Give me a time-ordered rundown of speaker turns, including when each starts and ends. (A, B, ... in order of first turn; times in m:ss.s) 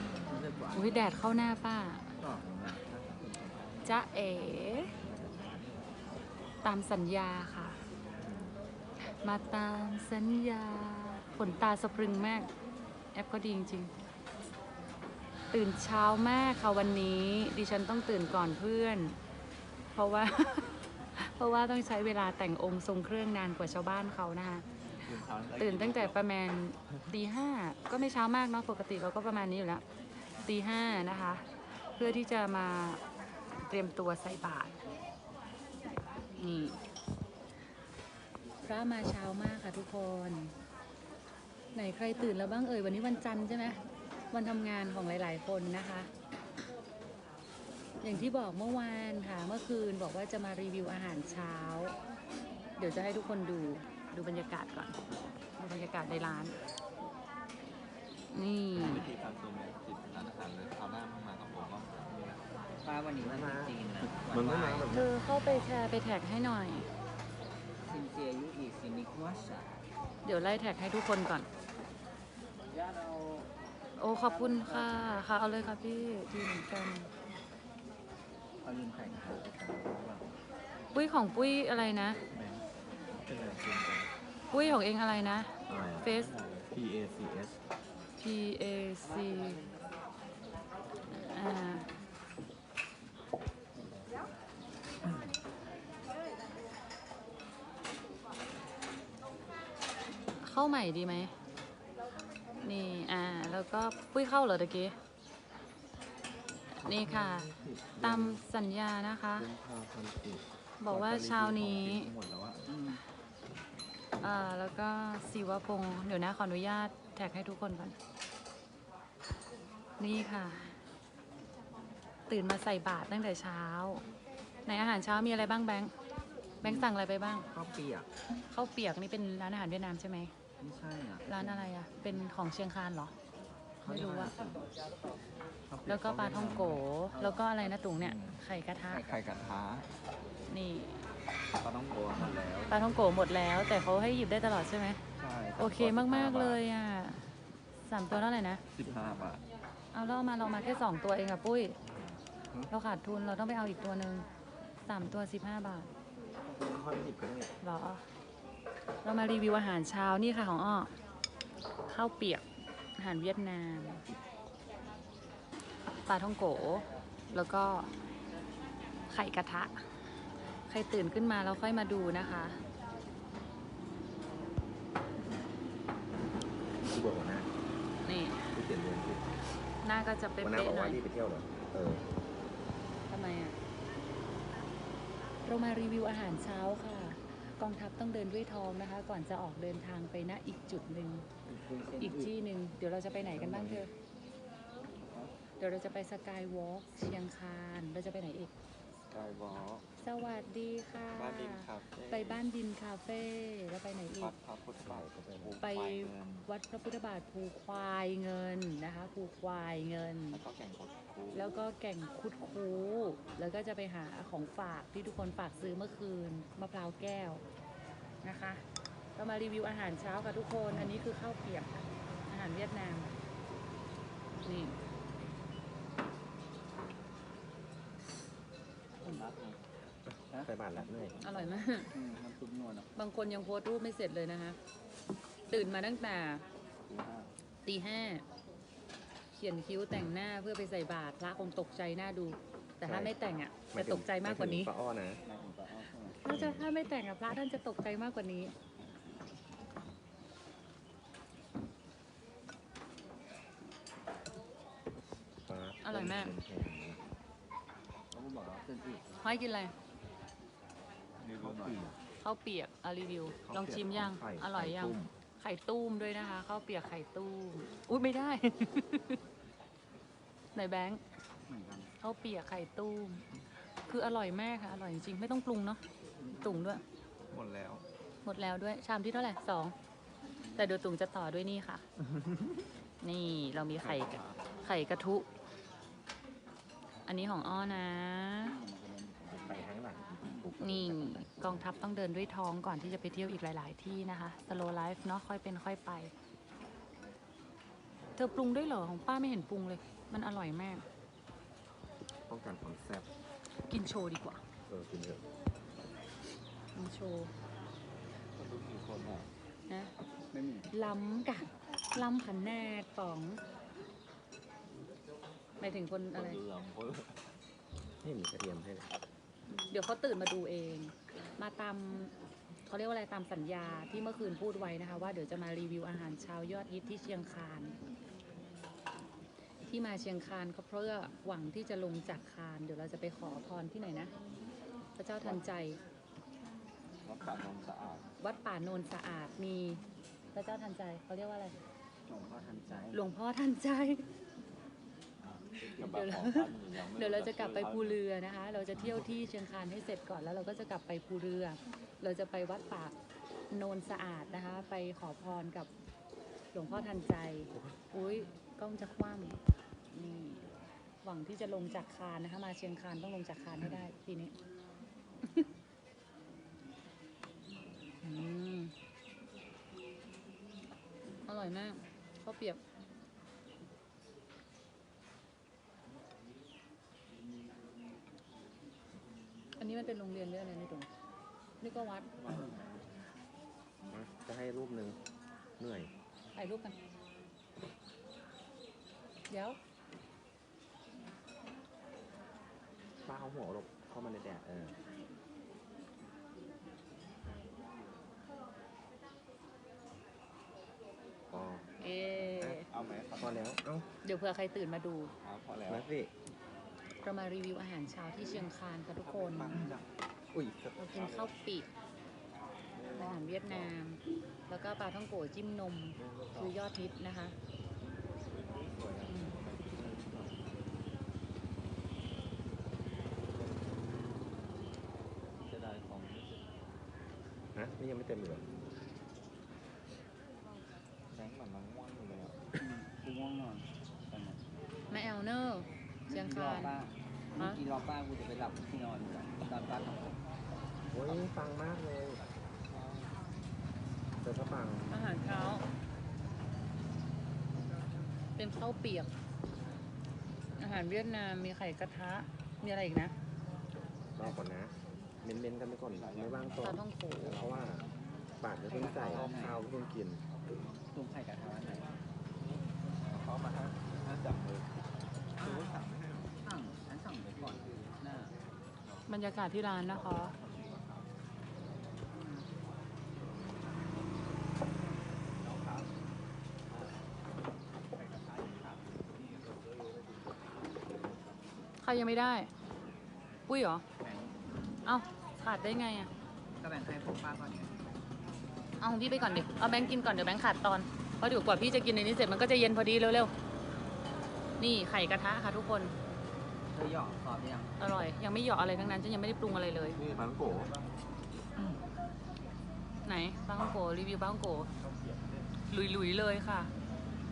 0:00.2-0:00.9 A
0:00.7-0:02.1 B
0:02.2-0:03.6 A
0:03.1-0:03.8 C
0:03.8-0:04.9 B
0:05.0-0:05.8 A
0:06.6-0:07.8 B
0:08.2-0:08.5 A
0:09.0-0:12.5 B
0:13.1-0:13.9 B
0:15.5-0:19.2 B
0:19.9-0:29.8 B
0:25.0-0:26.2 C
0:30.4-0:33.0 B
0:33.6-0:34.8 B
0:36.4-0:36.8 B
0:38.6-0:40.5 B
0:41.7-0:46.1 B
0:48.0-0:52.0 B
0:52.8-0:55.0 B
0:55.6-0:56.6 B
0:58.3-0:59.1 B
0:58.8-1:02.4 C
1:02.8-1:04.9 A
1:03.2-1:05.1 D
1:04.9-1:06.9 B
1:07.8-1:09.8 A
1:10.2-1:11.5 B
1:12.7-1:13.5 A
1:14.0-1:17.1 B
1:18.6-1:20.3 A
1:20.9-1:22.2 B
1:22.3-1:22.6 C
1:23.3-1:24.1 C
1:24.5-1:26.3 B
1:25.7-1:26.1 C
1:26.0-1:26.7 A
1:26.7-1:27.6 C
1:28.2-1:29.7 B
1:31.1-1:31.9 B
1:40.4-1:41.3 B
1:42.6-1:45.0 B
1:46.8-1:49.5 B
1:46.9-1:48.4 C
1:49.4-1:52.7 C
1:50.8-1:52.1 B
1:52.6-1:53.0 A
1:54.2-1:58.0 B
2:00.0-2:00.8 B
2:02.3-2:04.0 B
2:04.7-2:05.9 B
2:06.6-2:07.5 B
2:06.6-2:06.9 A
2:07.5-2:08.1 A
2:08.5-2:10.3 B
2:10.6-2:11.7 A
2:11.2-2:13.1 B
2:13.8-2:14.4 B
2:13.8-2:14.6 A
2:15.7-2:16.8 C
2:15.8-2:19.0 B
2:17.1-2:17.4 A
2:18.0-2:18.4 C
2:18.9-2:19.4 A
2:19.0-2:19.9 C
2:20.5-2:21.0 B
2:21.6-2:22.8 C
2:22.7-2:25.0 B
2:25.2-2:26.6 C
2:25.6-2:27.2 B
2:27.9-2:28.6 B
2:28.8-2:29.4 C
2:29.9-2:31.8 B
2:32.7-2:34.3 B
2:34.8-2:35.9 B
2:36.6-2:37.5 D
2:37.6-2:38.0 B
2:39.0-2:41.0 B
2:41.9-2:42.4 B
2:43.0-2:44.0 B
2:46.1-2:47.9 B
2:49.1-2:49.8 B
2:50.7-2:52.6 B
2:56.9-2:57.5 D
2:58.0-2:58.6 B
2:58.5-2:59.3 D
2:59.8-3:01.0 B
3:00.4-3:02.0 D
3:03.1-3:03.6 B
3:05.4-3:11.3 B
3:11.5-3:12.3 A
3:12.0-3:13.9 B
3:13.2-3:13.8 D
3:15.6-3:18.5 B
3:19.1-3:19.8 C
3:20.0-3:24.4 B
3:21.2-3:22.4 C
3:24.2-3:26.5 C
3:24.8-3:25.6 D
3:25.6-3:30.4 B
3:30.3-3:31.6 C
3:31.3-3:37.4 B
3:38.2-3:38.6 B
3:39.2-3:43.1 B
3:44.4-3:44.8 B
3:49.0-3:49.6 A
3:50.1-3:51.2 D
3:50.3-3:51.0 A
3:51.2-3:51.9 B
3:51.9-3:52.9 A
3:53.0-3:54.6 B
3:55.5-3:56.4 B
3:56.9-3:57.3 A
3:57.6-3:58.2 B
3:59.3-4:04.7 B
4:02.8-4:03.2 D
4:03.7-4:05.2 D
4:05.2-4:06.2 A
4:06.2-4:08.5 B
4:06.3-4:06.7 D
4:15.5-4:17.0 D
4:15.8-4:16.4 B
4:18.1-4:19.1 A
4:19.2-4:19.7 B
4:21.2-4:21.9 C
4:21.4-4:21.9 A
4:22.2-4:29.2 B
4:23.5-4:25.1 D
4:30.6-4:31.0 B
4:31.5-4:31.9 A
4:32.0-4:33.3 B
4:33.8-4:35.8 B
4:36.2-4:36.6 A
4:36.4-4:36.8 B
4:37.3-4:37.8 C
4:38.2-4:39.8 B
4:40.6-4:41.8 B
4:43.0-4:45.3 B
4:43.8-4:44.4 C
4:47.1-4:48.6 B
4:48.4-4:49.7 A
4:49.3-4:51.7 D
4:50.6-4:56.1 B
4:58.2-5:00.8 B
5:02.3-5:03.1 D
5:03.7-5:04.4 B
5:04.7-5:05.2 D
5:06.8-5:07.3 B
5:08.4-5:09.3 C
5:09.7-5:09.9 B
5:10.3-5:10.7 A
5:10.7-5:13.4 B
5:15.6-5:16.4 B
5:16.1-5:17.2 C
5:18.0-5:18.9 D
5:19.7-5:22.1 B
5:22.7-5:27.8 B
5:29.6-5:34.1 B
5:35.0-5:35.8 B
5:37.0-5:38.0 C
5:38.2-5:39.8 B
5:40.3-5:41.5 B
5:42.1-5:43.0 A
5:42.9-5:44.1 B
5:45.2-5:48.0 C
5:45.6-5:52.9 B
5:53.5-5:55.7 B
5:56.5-5:59.4 B
5:59.9-6:00.4 B
6:01.0-6:04.3 B
6:08.0-6:08.7 B
6:11.2-6:12.6 B
6:19.6-6:20.9 B
6:21.6-6:22.1 B
6:22.2-6:22.6 C
6:23.9-6:25.0 D
6:25.6-6:25.9 D
6:26.3-6:26.8 B
6:29.3-6:29.6 B
6:33.0-6:34.8 D
6:41.3-6:41.7 D
6:41.8-6:42.7 B
6:42.4-6:43.9 D
6:42.7-6:43.6 C
6:44.0-6:45.1 B
6:45.2-6:45.9 C
6:45.7-6:46.1 D
6:47.0-6:49.6 B
6:49.0-6:51.3 C
6:50.4-6:50.7 D
6:50.8-6:51.7 B
6:52.7-6:53.7 C
6:52.9-6:57.4 B
6:56.0-6:56.6 C
6:58.3-7:00.5 C
6:59.1-6:59.4 B
7:05.5-7:06.4 C
7:07.6-7:08.5 D
7:11.1-7:12.4 C
7:12.6-7:14.4 A
7:14.9-7:16.8 B
7:16.1-7:20.0 A
7:20.9-7:22.2 D
7:22.7-7:23.2 C
7:24.2-7:25.0 D
7:24.9-7:25.6 B
7:28.4-7:29.1 B
7:30.6-7:33.1 B
7:34.2-7:37.9 D
7:35.9-7:37.8 C
7:36.6-7:37.4 B
7:38.4-7:40.2 D
7:38.7-7:39.6 A
7:38.8-7:39.6 C
7:40.9-7:41.9 A
7:43.0-7:44.7 C
7:45.4-7:45.8 A
7:45.4-7:46.3 C
7:46.4-7:48.3 A
7:49.1-7:50.4 B
7:49.9-7:51.1 C
7:52.2-7:52.4 B
7:58.0-7:59.0 C
8:01.8-8:02.5 B
8:03.5-8:03.8 B
8:04.0-8:04.4 A
8:04.8-8:06.1 B
8:06.6-8:07.8 A
8:08.8-8:13.3 B
8:14.6-8:15.9 B
8:16.7-8:17.7 A
8:17.8-8:20.0 B
8:20.0-8:20.8 C
8:20.0-8:20.6 D
8:23.0-8:24.7 B
8:25.7-8:26.7 B